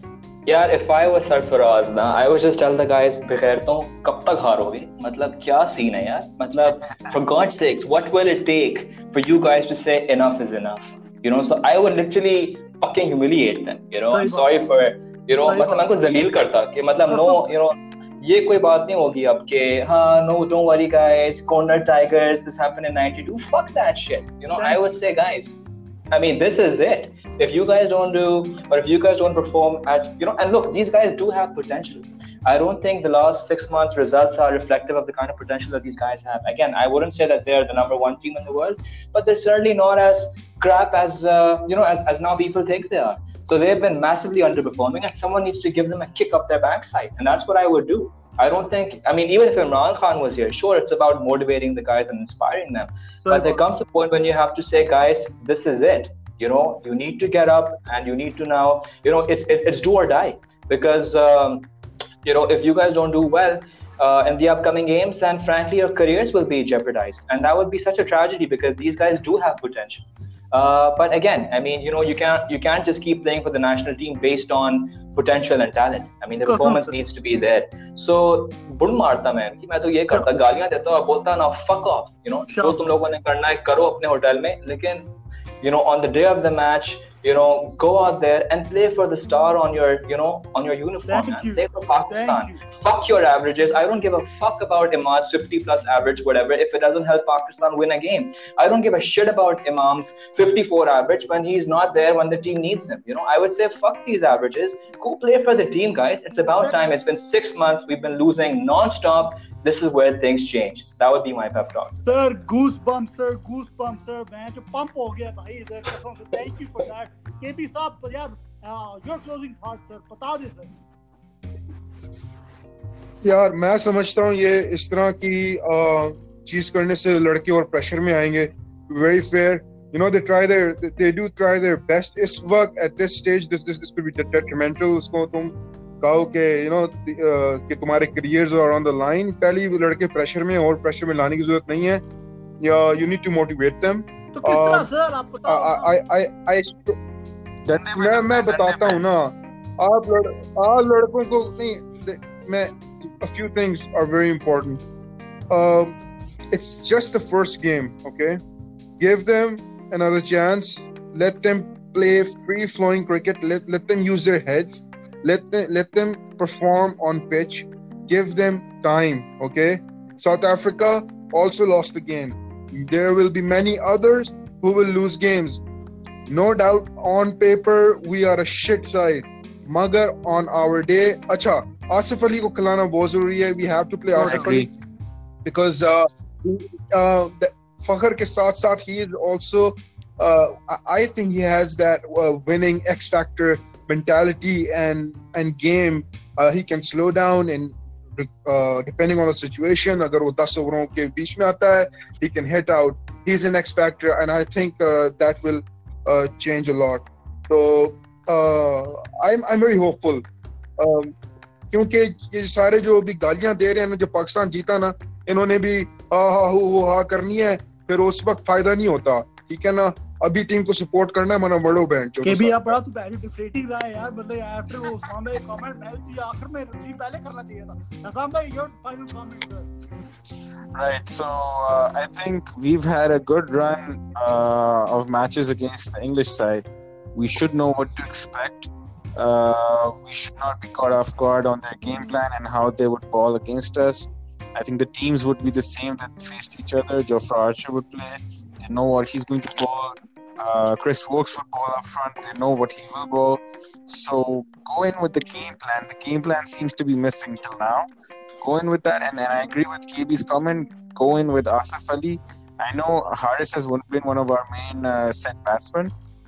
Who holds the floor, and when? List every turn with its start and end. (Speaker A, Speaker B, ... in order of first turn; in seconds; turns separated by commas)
Speaker A: 0.5-25.6, Speaker B: 14.1-14.4, Speaker B: 15.4-15.9, Speaker B: 17.1-17.4, Speaker A: 26.1-61.7, Speaker B: 53.2-53.6, Speaker A: 62.2-112.0, Speaker B: 76.5-76.9, Speaker B: 82.5-82.8, Speaker B: 91.1-92.6, Speaker B: 112.0-120.7, Speaker C: 123.2-142.0, Speaker C: 142.6-144.9, Speaker B: 144.3-145.9, Speaker C: 145.4-147.0, Speaker D: 147.7-149.0, Speaker C: 147.9-154.8, Speaker C: 155.5-156.0, Speaker C: 156.5-158.4, Speaker C: 159.0-175.6, Speaker C: 176.3-184.7, Speaker D: 184.2-184.7, Speaker C: 185.4-210.2, Speaker C: 210.8-211.1, Speaker C: 211.7-222.8, Speaker B: 222.2-229.7, Speaker D: 230.7-257.9, Speaker D: 258.4-265.9